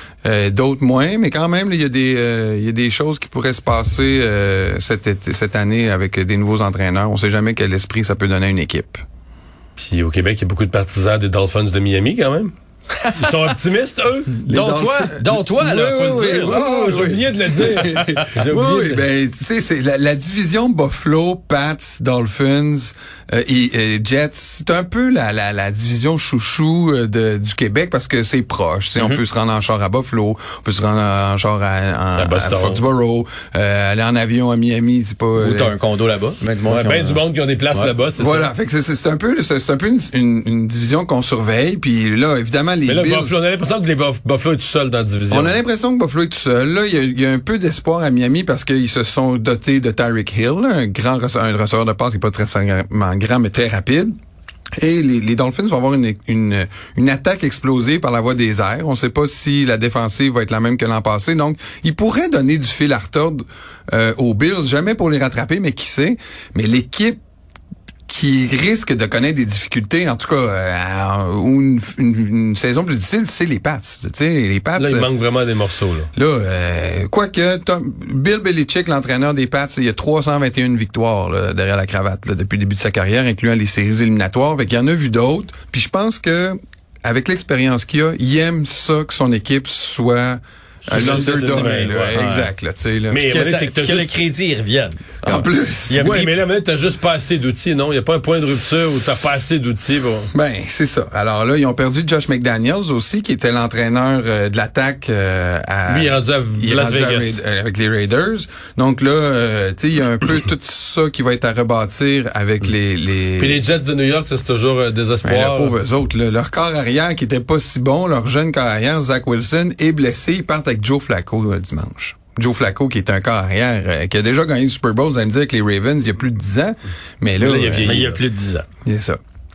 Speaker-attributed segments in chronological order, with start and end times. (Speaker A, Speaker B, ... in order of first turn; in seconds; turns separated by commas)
Speaker A: 0.2-9.0, Speaker B: 9.8-12.5, Speaker C: 13.1-13.5, Speaker B: 13.2-14.4, Speaker A: 14.5-35.8, Speaker C: 14.5-17.0, Speaker B: 16.2-19.1, Speaker C: 29.0-29.2, Speaker B: 32.2-32.8, Speaker C: 35.4-38.0, Speaker B: 36.7-38.5, Speaker A: 38.2-43.4, Speaker B: 42.9-45.6, Speaker A: 45.3-54.1, Speaker A: 54.8-67.2, Speaker A: 68.1-75.1, Speaker B: 74.8-76.1, Speaker A: 76.2-93.2, Speaker B: 90.8-92.1, Speaker C: 90.9-92.5, Speaker B: 93.1-94.1, Speaker C: 93.2-96.4, Speaker A: 95.2-96.2, Speaker B: 95.9-100.3, Speaker A: 100.3-113.6, Speaker B: 105.9-107.4, Speaker B: 113.4-115.8, Speaker A: 115.2-128.0, Speaker B: 127.4-128.2, Speaker C: 127.8-128.7, Speaker A: 128.8-129.2